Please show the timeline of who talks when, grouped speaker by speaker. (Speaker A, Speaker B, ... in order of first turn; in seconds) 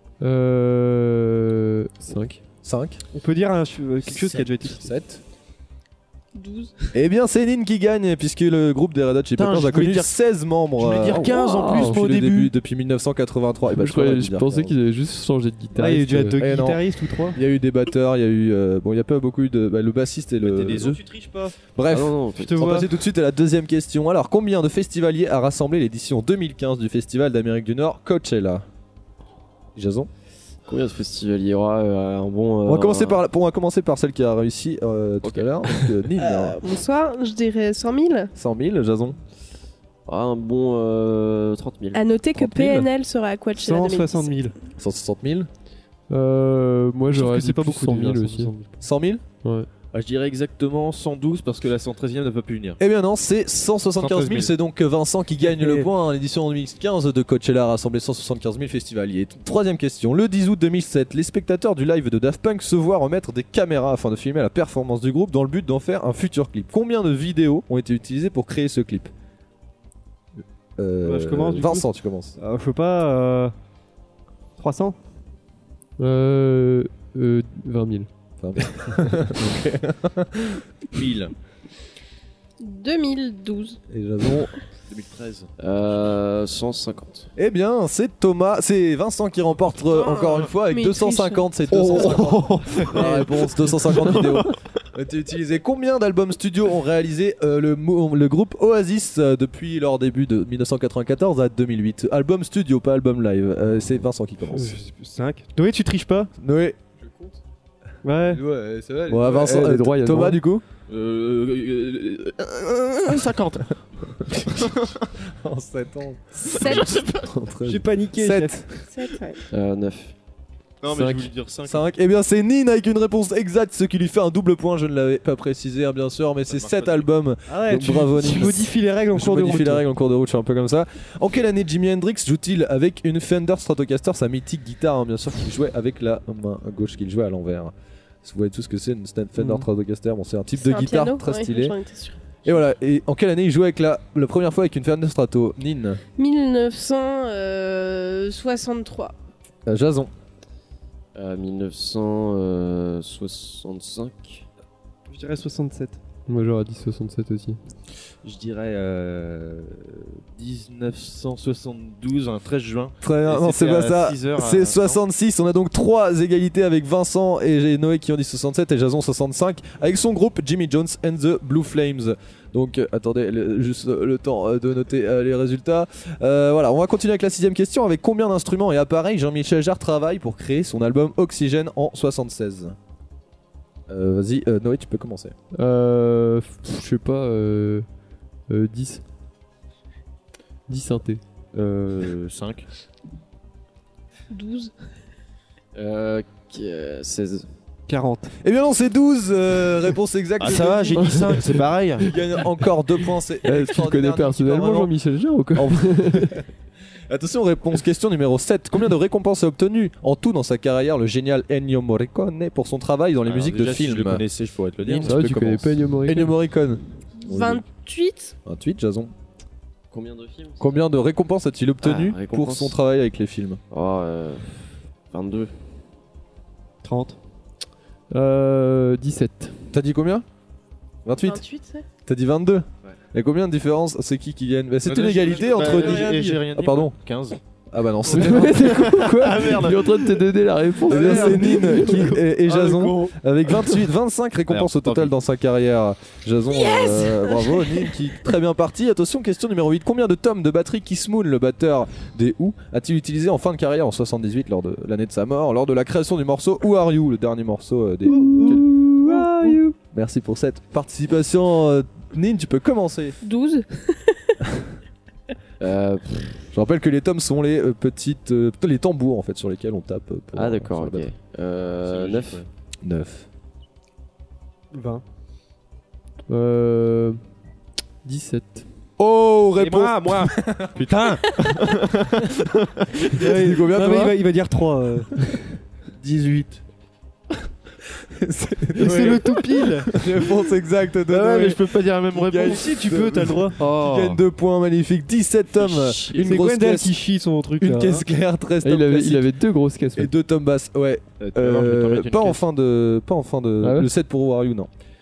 Speaker A: 0.2-2.4, 11.3-12.0, 13.7-16.4, 46.1-48.5, 76.0-78.1, 107.0-107.3, 108.3-110.4, 120.9-121.3, 156.3-157.6, 185.5-187.8, 188.5-189.0, 190.7-191.2, 203.4-206.4, 215.1-216.3, 228.1-229.5, 238.1-242.2, 258.1-259.7, 276.3-277.2, 278.0-278.7, 298.6-300.1, 303.6-303.9
Speaker B: 2.6-3.0, 4.0-5.2, 6.9-14.8, 16.4-16.8, 17.3-21.0, 21.7-28.6, 29.8-30.1, 32.6-36.6, 38.3-39.2, 42.4-42.9, 44.8-45.5, 48.8-49.2, 52.8-69.1, 70.8-72.3, 78.4-80.5, 83.9-84.5, 87.3-104.8, 106.4-106.8, 109.1-110.6, 115.4-118.6, 121.6-141.7, 142.4-146.0, 149.7-150.1, 163.0-182.8, 183.9-185.3, 198.4-204.9, 205.5-206.4, 207.1-214.2, 214.8-217.6, 218.4-219.1, 220.6-223.6, 229.7-230.2, 231.0-231.4, 232.1-236.9, 237.7-238.9, 240.9-258.7, 259.9-263.2, 266.5-271.1, 272.8-273.3, 279.0-280.8, 283.2-284.2, 288.2-296.9, 297.6-299.3, 299.9-304.7
Speaker C: 3.1-4.9, 15.8-17.4, 22.4-22.9, 43.6-44.5, 47.1-48.7, 55.4-55.9, 71.0-71.9, 72.4-73.5, 74.6-75.0, 92.0-93.0, 104.5-106.3, 108.0-108.4, 117.6-118.8, 127.5-129.8, 139.4-139.6, 155.1-156.0, 197.9-198.3, 226.8-227.2, 235.5-236.4, 258.1-259.6, 274.7-275.0, 283.1-285.4, 288.7-290.0, 292.7-293.6, 296.2-298.0
Speaker D: 6.3-6.7, 36.6-38.3, 41.9-44.4, 82.6-83.8, 90.7-92.2, 116.4-117.2, 118.9-119.4, 140.6-142.2, 146.2-149.1, 194.3-194.7, 217.2-218.3, 231.2-231.8, 246.5-247.9, 263.2-264.4
Speaker E: 9.3-10.1, 10.7-12.5, 20.4-21.5, 49.9-52.8, 54.0-54.5, 80.9-81.3, 84.9-86.2, 91.9-94.5, 110.9-114.9, 116.7-116.9, 120.8-121.8, 126.5-127.1, 158.2-165.0, 191.5-192.7, 200.4-202.2, 213.2-215.2, 234.8-237.4, 238.2-240.2, 240.9-243.2, 244.5-245.1, 271.6-272.5, 279.5-283.0, 286.0-286.6, 291.1-293.0, 293.6-294.1, 295.6-296.3, 301.2-302.4
Speaker F: 21.9-22.6, 30.6-33.2, 35.2-36.0, 40.1-42.0, 85.6-87.3, 119.5-120.1, 151.1-154.4, 195.7-197.5, 219.9-220.8, 221.8-222.8, 223.7-224.5, 225.1-225.5, 265.6-266.4, 270.3-272.4